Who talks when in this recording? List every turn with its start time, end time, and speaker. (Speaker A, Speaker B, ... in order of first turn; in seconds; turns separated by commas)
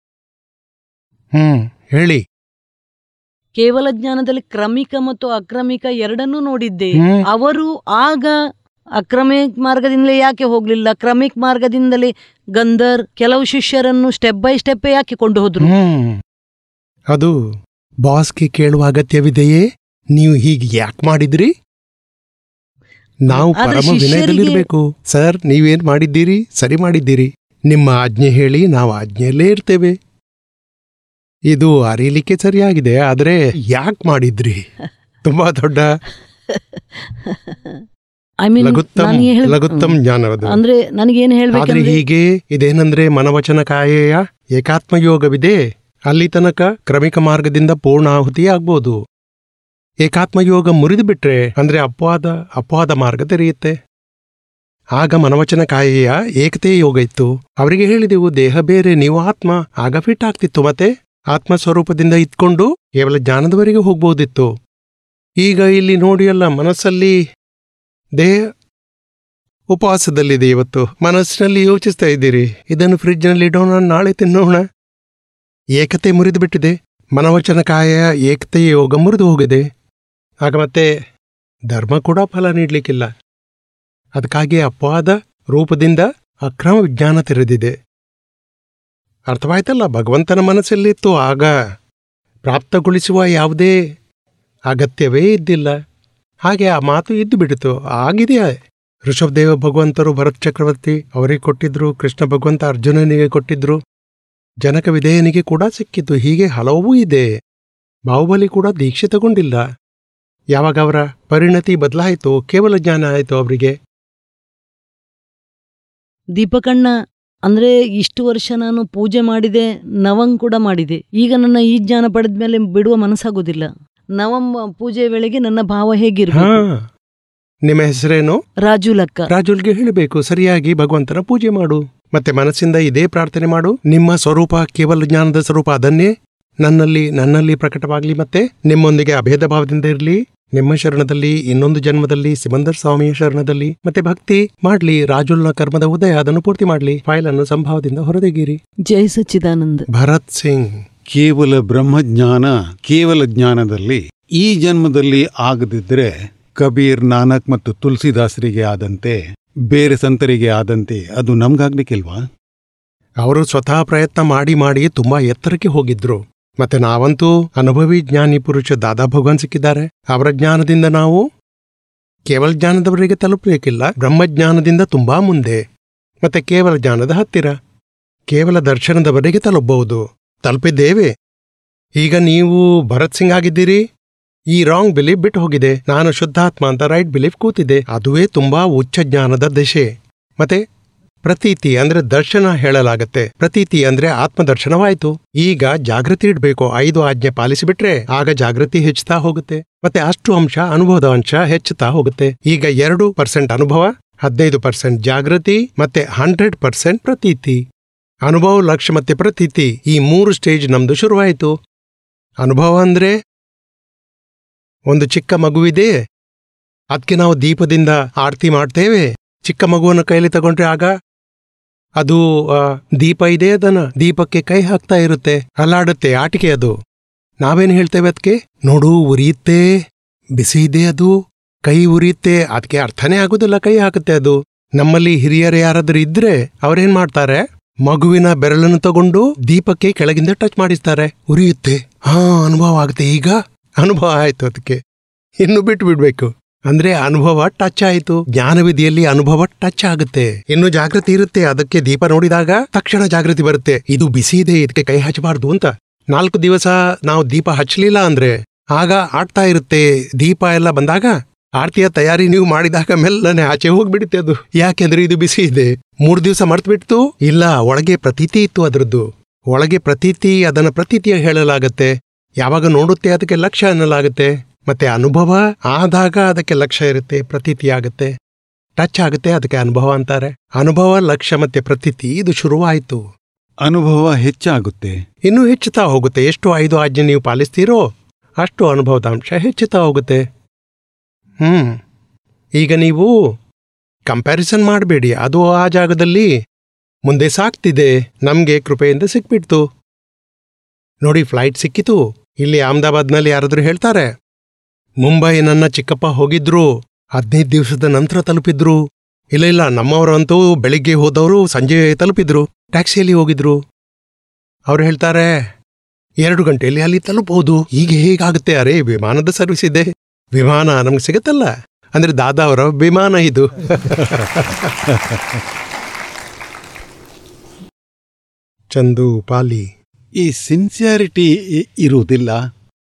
Speaker A: 1.3-2.2, Speaker B: 3.5-8.4, Speaker A: 7.0-7.2, Speaker B: 9.0-15.7, Speaker A: 15.6-16.2, Speaker A: 17.1-17.4, Speaker A: 18.0-21.5, Speaker A: 23.3-30.0, Speaker B: 23.3-24.6, Speaker A: 31.5-34.6, Speaker A: 35.2-35.9, Speaker B: 36.5-37.8, Speaker B: 38.4-39.9, Speaker A: 38.6-40.6, Speaker B: 40.5-42.0, Speaker A: 41.5-45.6, Speaker A: 46.1-49.0, Speaker A: 50.0-53.8, Speaker A: 55.0-64.5, Speaker A: 65.4-67.2, Speaker A: 69.7-74.6, Speaker A: 75.8-79.7, Speaker A: 80.4-80.9, Speaker A: 81.7-83.1, Speaker A: 84.2-87.7, Speaker A: 89.3-91.5, Speaker A: 92.5-93.7, Speaker A: 94.7-95.8, Speaker A: 96.4-103.8, Speaker A: 104.6-107.3, Speaker A: 108.1-109.6, Speaker A: 110.5-113.8, Speaker B: 116.4-116.9, Speaker B: 117.5-126.6, Speaker A: 126.3-126.8, Speaker A: 127.7-128.4, Speaker B: 128.6-129.3, Speaker A: 129.3-148.6, Speaker B: 148.8-149.9, Speaker A: 149.9-150.8, Speaker C: 151.1-159.2, Speaker C: 159.7-162.2, Speaker A: 163.2-171.2, Speaker A: 172.3-175.6, Speaker A: 176.2-177.5, Speaker A: 178.3-181.1, Speaker A: 182.0-183.8, Speaker A: 184.5-190.6, Speaker A: 191.2-207.6, Speaker A: 208.2-211.5, Speaker A: 212.4-213.2, Speaker A: 214.9-215.9, Speaker A: 216.9-220.9, Speaker A: 222.0-226.7, Speaker A: 227.4-229.7, Speaker A: 230.4-244.8, Speaker A: 245.4-278.1, Speaker A: 278.8-283.0, Speaker C: 283.6-284.9, Speaker A: 285.3-287.9, Speaker A: 288.4-290.2, Speaker A: 291.4-291.8, Speaker A: 292.6-293.1, Speaker A: 294.1-296.3, Speaker A: 297.1-299.6, Speaker A: 301.0-304.1, Speaker A: 305.0-308.8, Speaker A: 309.3-313.6, Speaker A: 314.7-315.3, Speaker A: 316.2-324.8, Speaker C: 324.9-325.3, Speaker A: 328.7-329.7, Speaker C: 330.2-332.4